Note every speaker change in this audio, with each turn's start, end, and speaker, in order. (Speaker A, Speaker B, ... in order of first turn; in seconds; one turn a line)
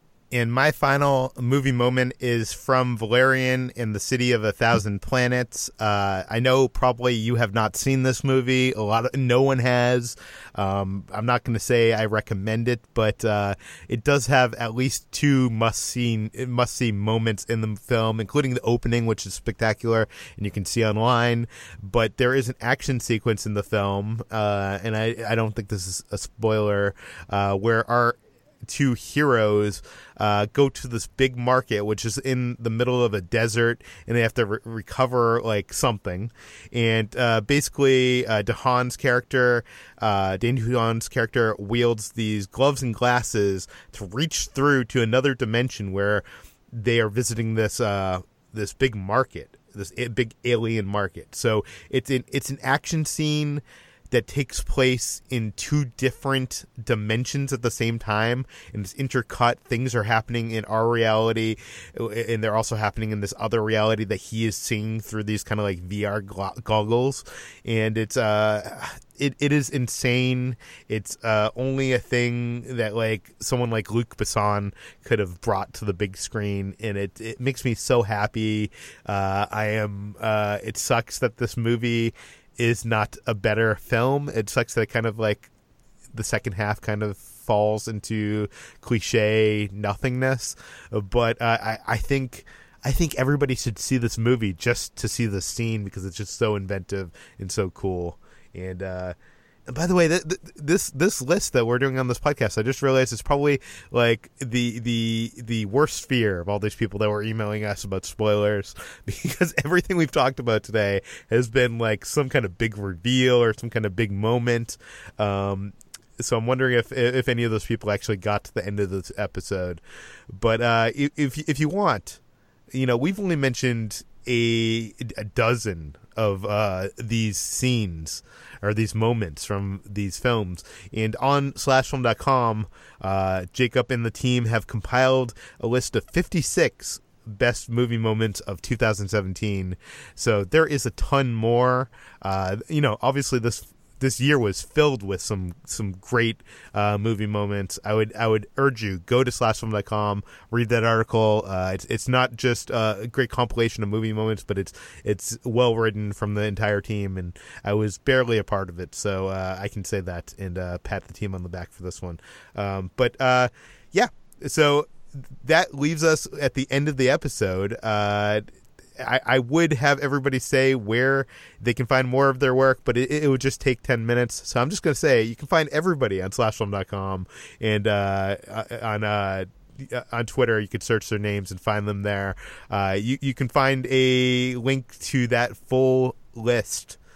Speaker A: 0.3-85.5
Speaker A: 86.1-99.2
Speaker A: 99.7-119.8
Speaker A: 120.3-122.2
Speaker A: 122.7-168.5
Speaker A: 169.0-187.0